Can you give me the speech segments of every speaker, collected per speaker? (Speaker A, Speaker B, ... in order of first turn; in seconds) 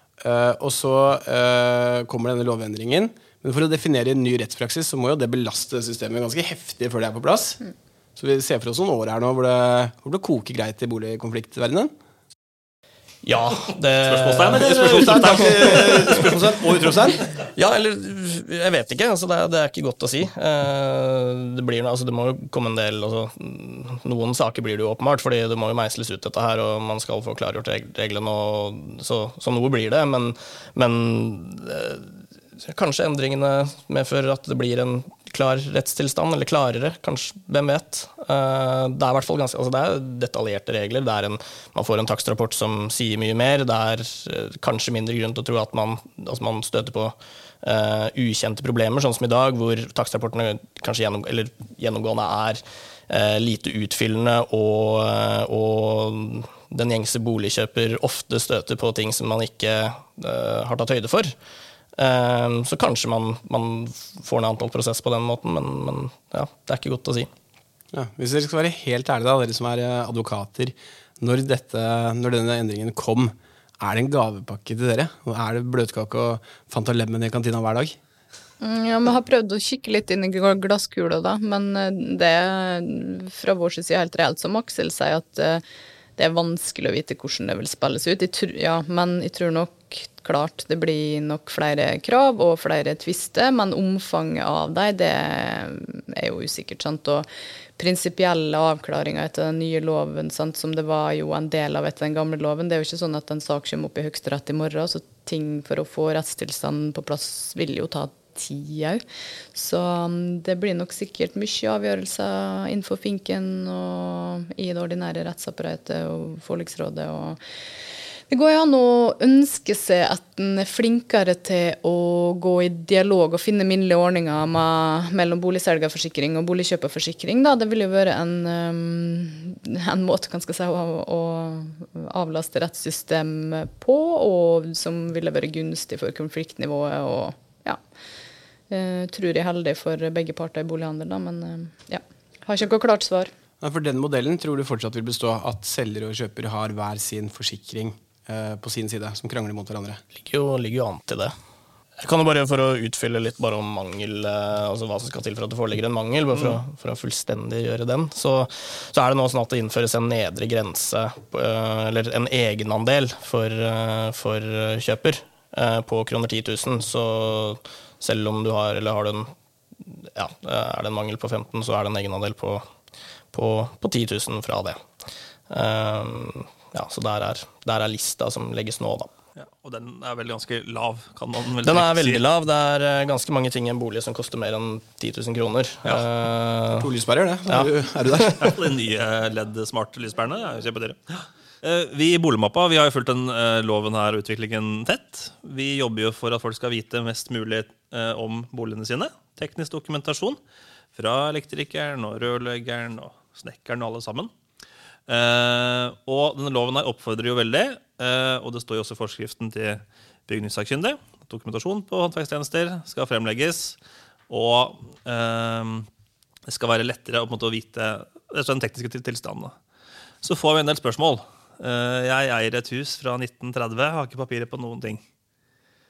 Speaker A: 0.2-7.6, 8.2-11.9, 14.3-17.2, 67.9-78.0, 143.6-150.0, 186.8-188.5
Speaker B: 13.2-16.2, 17.5-61.3, 61.9-67.3, 150.1-151.3, 152.0-172.6, 173.3-174.8, 175.5-179.1, 181.6-186.9, 187.5-188.4
Speaker C: 14.1-17.2, 179.4-182.2, 188.4-200.4, 200.9-204.3, 205.1-213.8, 214.3-215.9, 216.5-219.5, 220.2-225.0
Speaker D: 78.6-85.6, 86.2-97.2, 97.8-109.0, 109.5-117.4, 118.3-137.8, 138.7-143.3